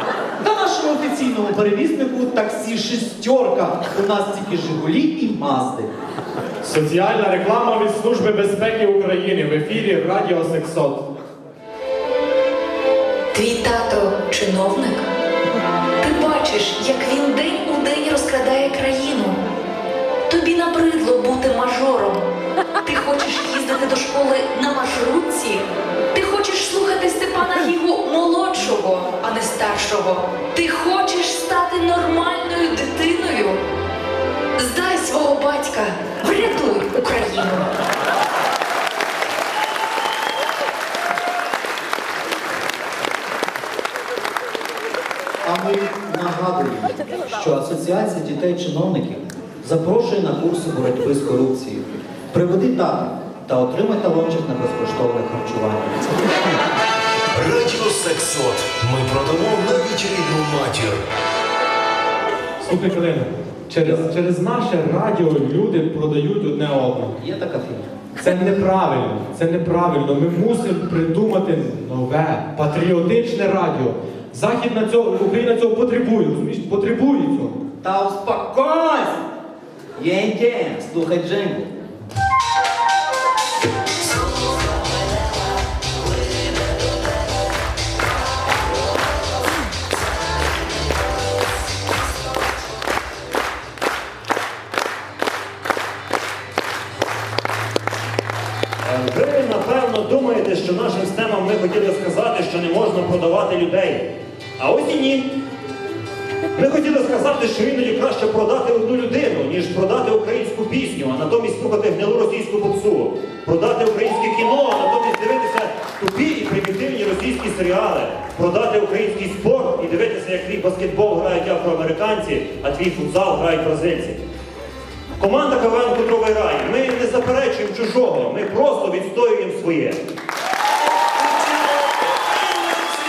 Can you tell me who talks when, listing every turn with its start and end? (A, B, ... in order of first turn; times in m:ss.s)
0:00.4-0:05.9 A
0:06.6-0:11.0 B
0:13.3-0:15.0 C
0:16.0-0:19.4 C
0:20.3-0:22.3 C
0:22.8-0:33.6 C
0:34.6-0:37.7 C
0:45.4-0:56.1 A
0:57.3-1:01.0 D
1:02.6-1:07.1 B
1:07.2-1:07.9 A
1:08.2-1:17.6 B
1:17.8-1:19.2 A
1:20.0-1:21.7 A
1:38.8-1:45.3 E
1:46.6-2:04.2 E
2:05.2-2:10.0 E